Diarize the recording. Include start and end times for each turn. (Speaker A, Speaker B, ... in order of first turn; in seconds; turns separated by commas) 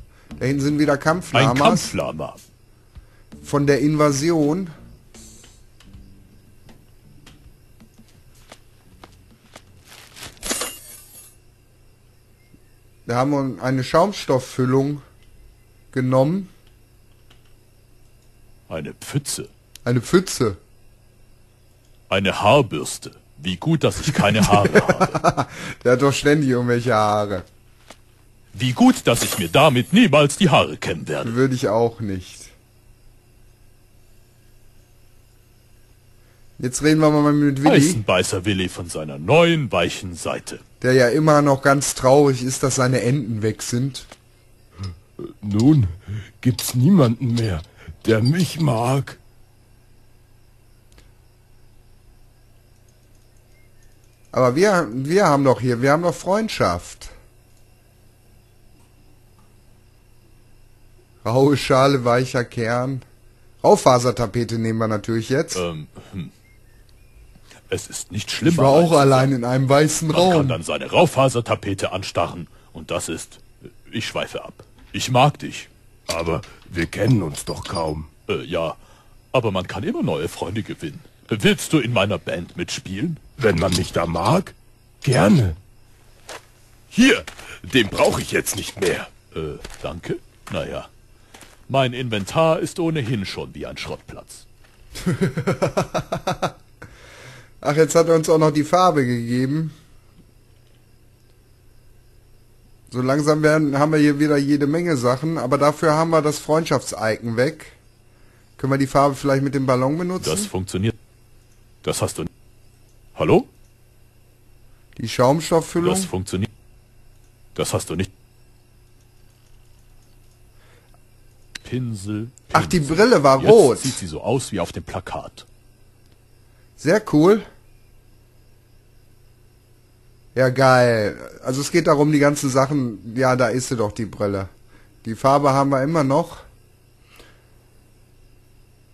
Speaker A: 0.4-1.9, Speaker B: 1.3-2.4, Speaker A: 3.4-4.7, Speaker A: 13.1-15.0, Speaker A: 15.9-16.5, Speaker B: 18.7-19.5, Speaker A: 19.8-20.6, Speaker B: 22.1-25.2, Speaker A: 24.2-27.4, Speaker B: 28.5-31.4, Speaker A: 31.2-32.5, Speaker A: 36.6-38.0, Speaker B: 37.6-40.6, Speaker A: 40.8-44.1, Speaker C: 45.2-49.2, Speaker A: 54.3-57.1, Speaker A: 61.2-63.0, Speaker A: 63.6-65.6, Speaker B: 65.5-66.3, Speaker B: 67.7-69.3, Speaker A: 68.4-70.6, Speaker B: 70.1-75.7, Speaker C: 76.1-78.1, Speaker B: 78.3-78.8, Speaker B: 79.3-83.2, Speaker C: 83.4-85.6, Speaker C: 86.9-89.1, Speaker B: 89.3-90.9, Speaker B: 91.7-94.5, Speaker A: 95.0-96.5, Speaker A: 97.6-99.7, Speaker A: 102.9-107.8, Speaker A: 108.6-110.5, Speaker B: 110.2-111.0, Speaker B: 111.8-112.3, Speaker B: 113.2-113.5, Speaker A: 115.0-116.1, Speaker B: 115.8-116.5, Speaker B: 117.5-118.1, Speaker B: 121.6-125.5, Speaker A: 122.5-124.0, Speaker A: 126.8-127.4, Speaker A: 130.3-134.5, Speaker A: 135.0-136.4